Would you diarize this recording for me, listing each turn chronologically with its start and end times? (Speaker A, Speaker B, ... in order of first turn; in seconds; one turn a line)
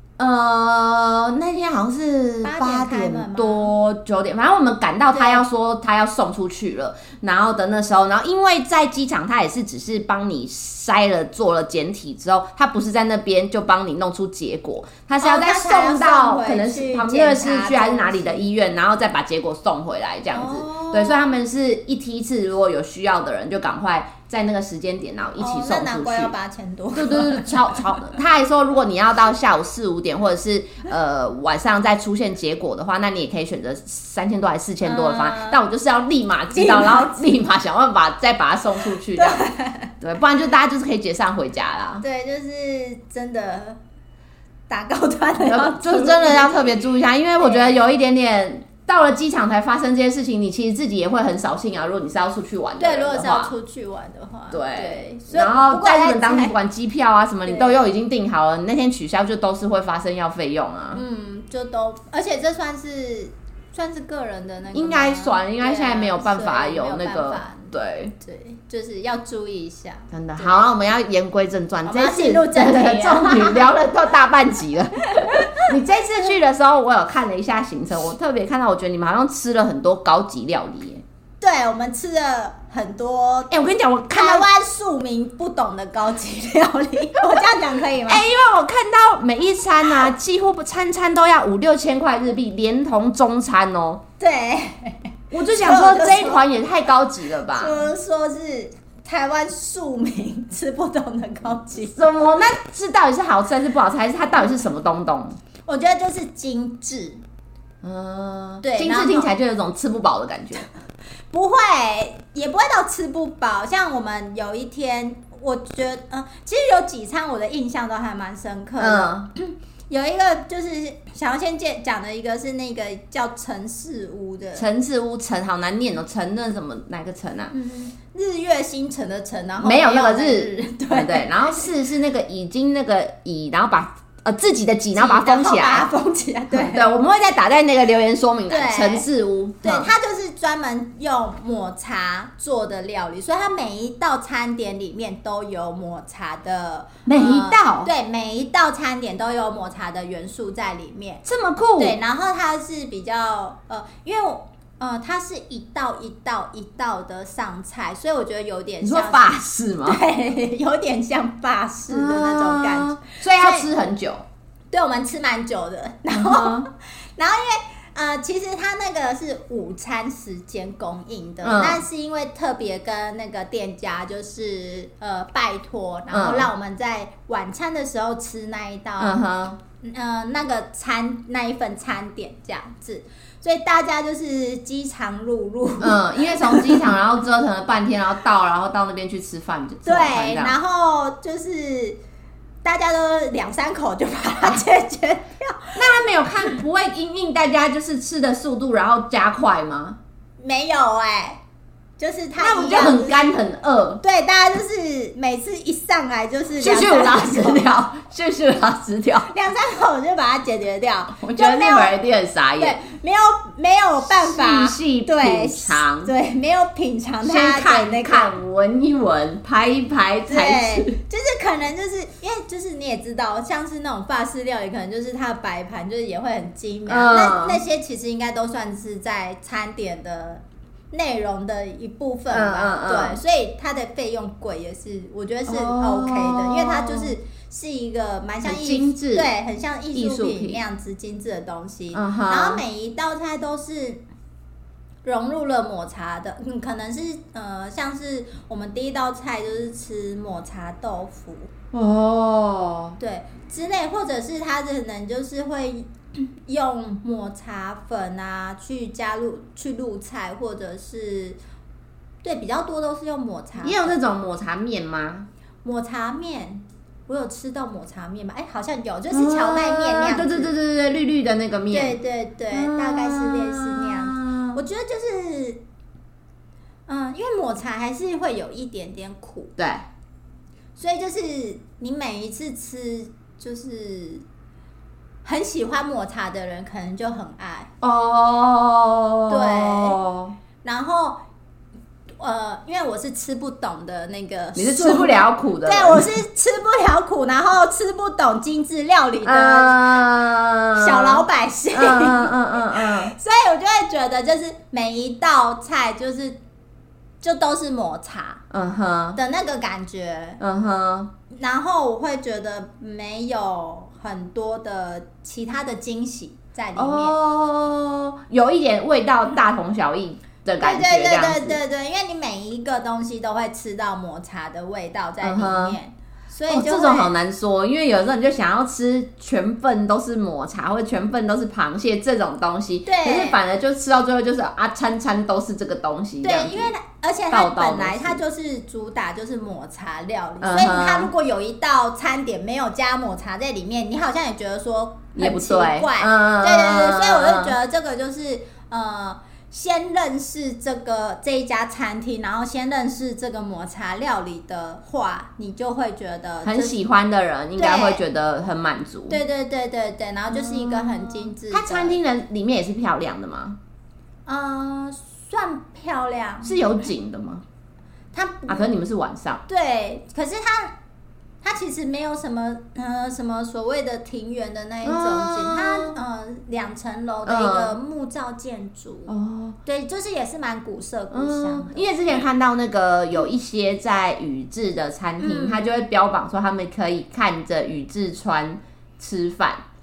Speaker A: 0.2-26.3
Speaker B: 2.4-3.7
Speaker B: 5.1-5.4
Speaker B: 15.2-18.4
Speaker B: 20.3-21.3
Speaker B: 25.4-28.0
Speaker A: 26.9-39.5
Speaker B: 34.8-35.6
Speaker B: 36.5-37.3
Speaker B: 39.1-39.9
Speaker A: 40.0-42.0
Speaker B: 42.0-43.8
Speaker B: 44.7-46.8
Speaker A: 45.5-53.5
Speaker B: 47.4-47.8
Speaker B: 52.8-56.6
Speaker A: 54.5-61.0
Speaker B: 57.5-57.9
Speaker B: 60.9-70.7
Speaker A: 64.7-68.1
Speaker A: 70.1-81.0
Speaker B: 71.8-73.7
Speaker B: 75.1-75.7
Speaker B: 81.4-83.5
Speaker A: 83.5-84.5
Speaker B: 84.1-88.2
Speaker A: 88.1-94.0
Speaker B: 94.2-96.4
Speaker A: 95.3-97.8
Speaker B: 97.5-102.1
Speaker A: 101.9-105.4
Speaker B: 105.7-107.2
Speaker A: 107.8-110.7
Speaker B: 108.6-109.3
Speaker B: 111.3-124.7
Speaker A: 118.8-119.3
Speaker A: 124.5-127.5
Speaker B: 127.5-131.7
Speaker A: 129.6-135.9
Speaker B: 134.9-136.9
Speaker A: 136.5-139.9
Speaker B: 138.5-139.1
Speaker B: 139.6-151.2
Speaker A: 147.1-147.9
Speaker A: 151.2-152.0
Speaker B: 151.8-163.7
Speaker A: 158.8-160.0
Speaker A: 161.9-164.2
Speaker B: 164.7-179.2
Speaker A: 166.1-166.7
Speaker A: 171.4-171.8
Speaker A: 176.1-176.5
Speaker A: 179.0-179.6
Speaker B: 179.8-186.9
Speaker A: 185.8-190.6
Speaker B: 189.8-192.0
Speaker B: 192.6-196.6
Speaker A: 195.8-200.0
Speaker B: 200.4-201.4
Speaker B: 202.0-203.3
Speaker A: 202.4-204.0
Speaker B: 204.0-207.7
Speaker A: 206.6-209.3
Speaker B: 209.3-211.9
Speaker A: 211.2-212.8
Speaker B: 212.6-218.3
Speaker A: 214.1-216.1
Speaker A: 217.2-221.0
Speaker B: 220.3-244.0
Speaker A: 226.9-227.6
Speaker A: 232.3-233.2
Speaker A: 235.5-237.1
Speaker A: 238.4-239.3
Speaker A: 239.9-240.6
Speaker A: 241.9-242.6
Speaker B: 245.1-251.5
Speaker A: 251.7-253.0
Speaker B: 253.0-261.4
Speaker B: 262.2-264.0
Speaker A: 263.6-265.3
Speaker B: 265.6-270.5
Speaker A: 269.1-272.0
Speaker B: 271.7-275.6
Speaker A: 272.5-274.6
Speaker B: 276.9-279.5
Speaker A: 279.6-279.9
Speaker B: 280.8-284.2
Speaker B: 285.2-287.7
Speaker A: 287.8-290.4
Speaker B: 289.3-290.0
Speaker B: 290.6-291.2
Speaker B: 292.2-300.1
Speaker A: 294.6-296.1
Speaker A: 299.2-303.1
Speaker B: 300.8-306.4
Speaker B: 307.2-308.4
Speaker A: 308.5-309.2
Speaker B: 309.2-310.4
Speaker A: 310.4-311.1
Speaker B: 311.3-317.2
Speaker A: 316.8-321.6
Speaker B: 320.6-327.1
Speaker A: 325.2-325.8
Speaker A: 326.5-336.7
Speaker B: 332.9-333.4
Speaker B: 336.2-356.8
Speaker A: 337.3-338.2
Speaker A: 340.4-341.1
Speaker A: 345.2-347.6
Speaker A: 356.4-359.2
Speaker B: 357.6-358.0
Speaker B: 359.1-362.0
Speaker A: 360.3-363.6
Speaker B: 364.3-366.7
Speaker A: 366.4-367.4
Speaker B: 368.1-368.7
Speaker A: 368.5-369.4
Speaker B: 369.5-370.8
Speaker B: 371.4-379.1
Speaker A: 374.8-376.0
Speaker A: 377.3-377.8
Speaker A: 379.1-379.6
Speaker B: 379.6-382.2
Speaker A: 381.1-389.6
Speaker B: 385.2-385.7